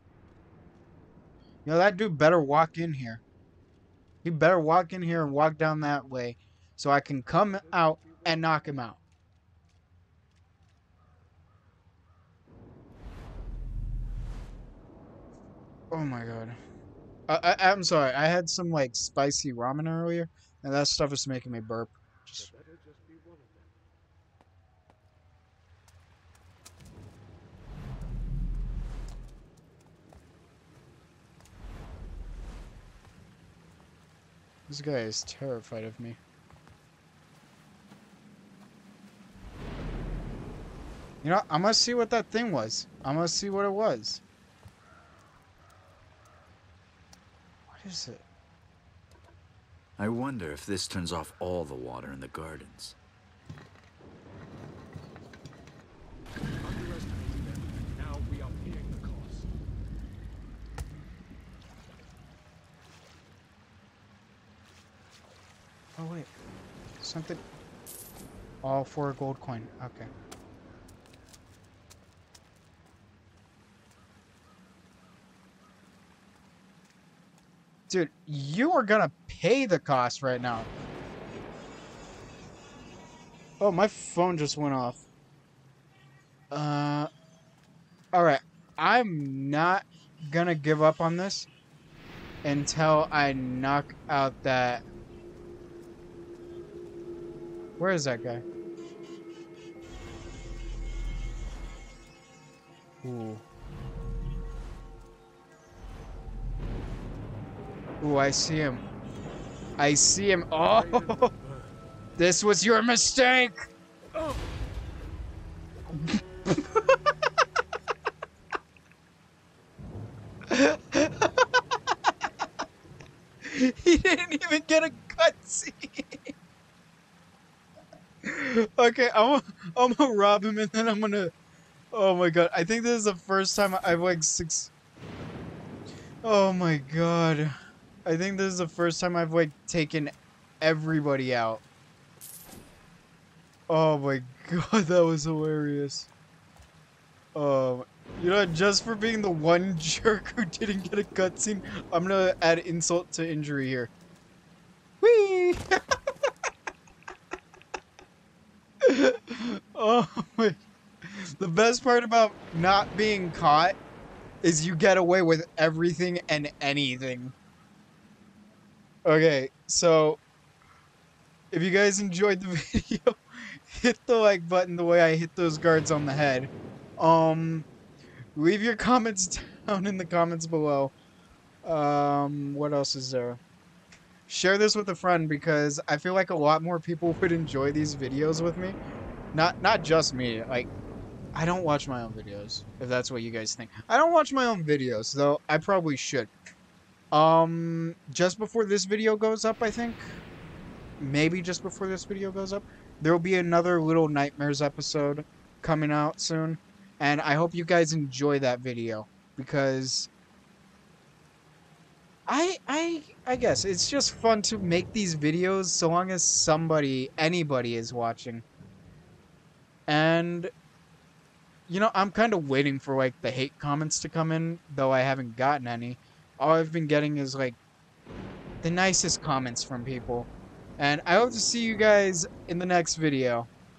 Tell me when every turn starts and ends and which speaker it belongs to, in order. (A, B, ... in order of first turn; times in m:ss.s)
0:01.6-0:03.2 A
0:04.2-0:09.0 A
0:07.5-0:08.6 B
0:15.9-0:16.6 A
0:17.3-0:22.5 A
0:22.4-0:23.7 B
0:34.7-0:36.2 A
0:41.2-0:44.2 A
0:47.7-0:48.2 A
0:50.0-0:53.0 C
0:56.6-0:59.5 B
1:06.0-1:06.3 A
1:07.0-1:07.4 A
1:08.6-1:10.1 A
1:17.9-1:20.7 A
1:23.6-1:25.0 A
1:26.5-1:27.1 A
1:28.1-1:31.5 A
1:32.4-1:34.8 A
1:37.8-1:38.4 A
1:43.0-1:43.4 A
1:48.0-1:48.8 A
1:49.8-1:51.3 A
1:50.7-1:51.6 B
1:52.2-1:53.7 A
1:56.0-1:56.9 A
2:00.5-2:01.4 A
2:03.4-2:06.3 A
2:08.2-2:11.3 A
2:11.9-2:14.7 A
2:16.2-2:21.6 A
2:23.7-2:26.1 A
2:27.3-2:33.9 A
2:35.0-2:35.8 A
2:38.8-2:43.8 A
2:44.4-2:47.3 A
2:49.0-2:50.2 A
2:51.5-2:57.7 A
2:58.3-3:00.9 A
3:01.6-3:03.4 A
3:04.3-3:08.8 A
3:09.3-3:10.7 A
3:11.3-3:16.3 A
3:17.1-3:20.0 A
3:21.0-3:30.1 A
3:32.3-3:38.4 A
3:39.9-3:40.5 A
3:41.7-3:47.6 A
3:48.6-3:53.5 A